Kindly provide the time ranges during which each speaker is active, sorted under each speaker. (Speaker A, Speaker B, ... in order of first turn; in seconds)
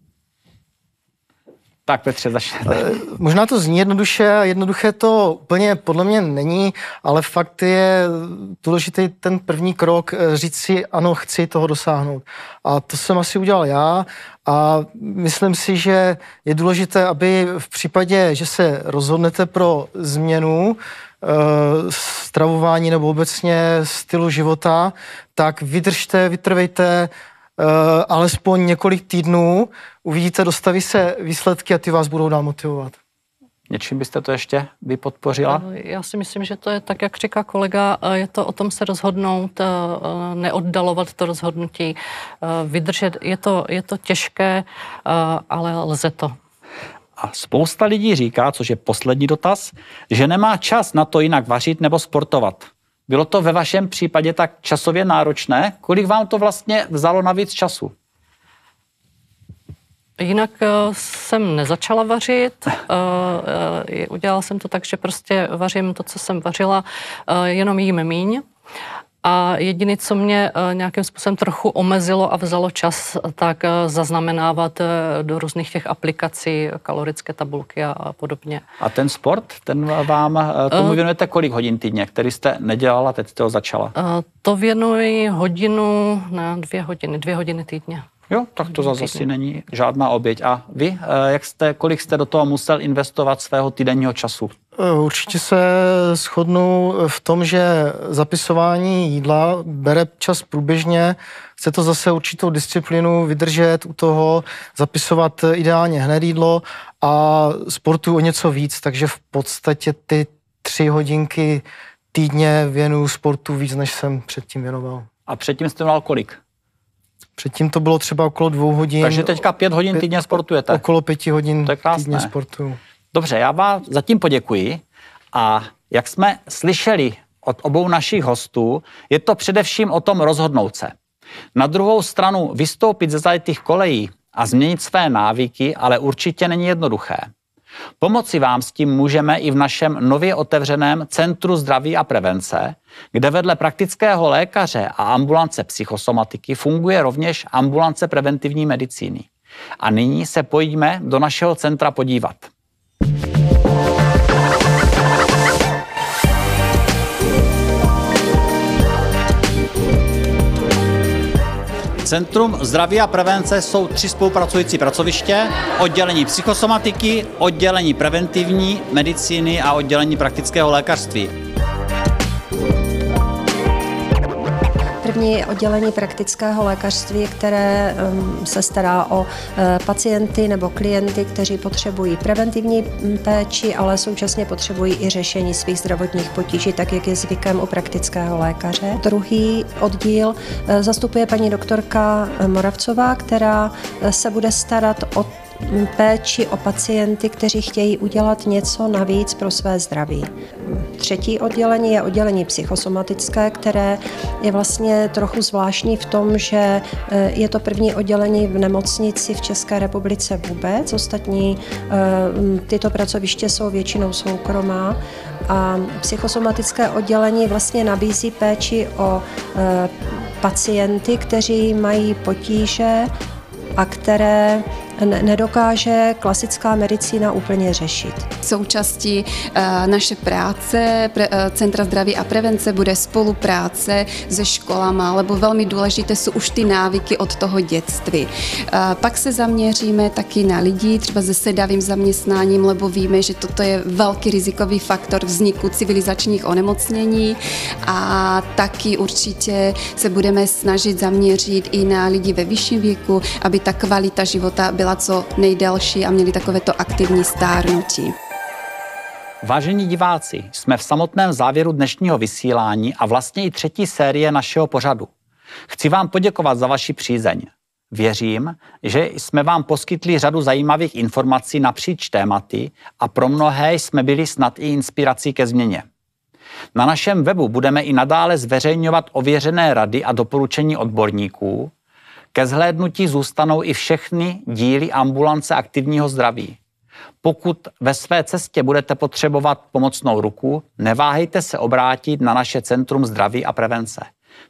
Speaker A: 1.9-3.0, 33.7-35.6, 47.2-57.9, 78.8-83.9, 88.3-94.5, 115.3-116.4, 119.0-120.8, 121.6-122.3, 123.1-124.8, 125.3-130.9, 131.5-137.3, 138.0-149.3, 149.8-152.5, 162.0-171.3, 259.4-265.1, 265.7-275.8, 276.7-281.7, 282.3-286.6, 287.2-294.1
Speaker B: 2.7-33.0, 94.8-115.1, 117.4-119.4, 119.9-122.8
Speaker C: 35.5-46.4, 60.2-68.4, 69.2-78.6, 80.7-81.0, 84.0-88.0, 88.7-89.0
Speaker D: 175.0-223.1, 223.8-228.3
Speaker E: 228.4-258.1